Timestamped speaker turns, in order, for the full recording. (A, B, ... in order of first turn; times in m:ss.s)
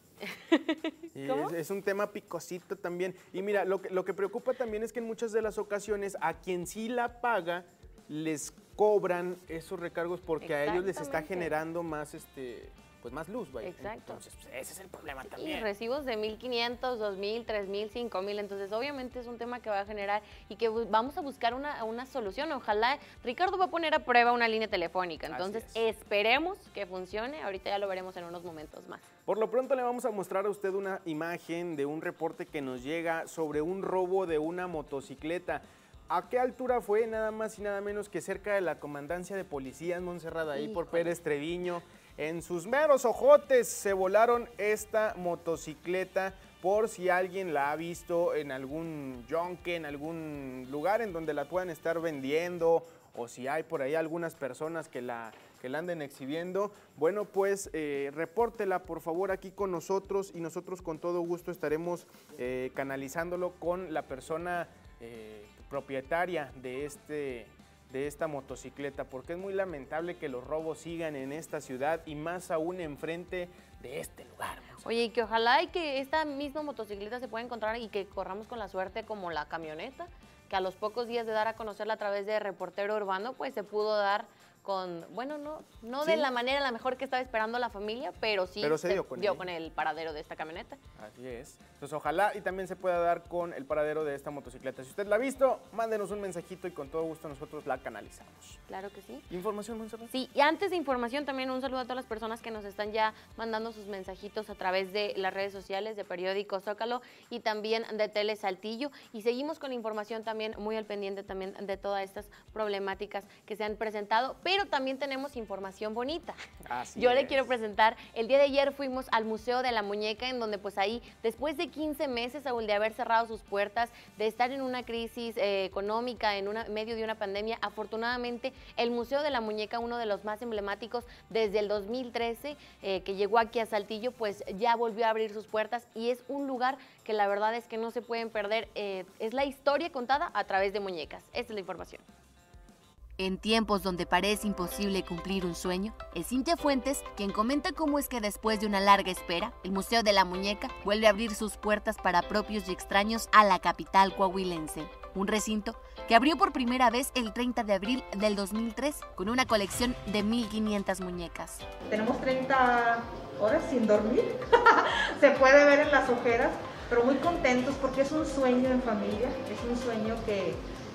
0:00.2-0:01.5 A
0:01.2-0:15.7 B
0:10.4-0:11.5 A
0:13.6-0:14.2 A
0:15.4-0:29.1 A
0:25.3-0:25.8 B
0:29.3-1:14.8 B
0:40.5-0:41.1 A
1:14.8-1:30.8 A
1:26.0-1:26.3 B
1:28.6-1:29.5 B
1:31.0-1:38.6 B
1:38.7-1:39.3 A
1:39.3-1:40.1 B
1:40.1-1:56.4 A
1:56.6-1:57.5 B
1:57.0-2:22.0 A
2:23.2-2:41.6 C
2:41.9-2:50.6 D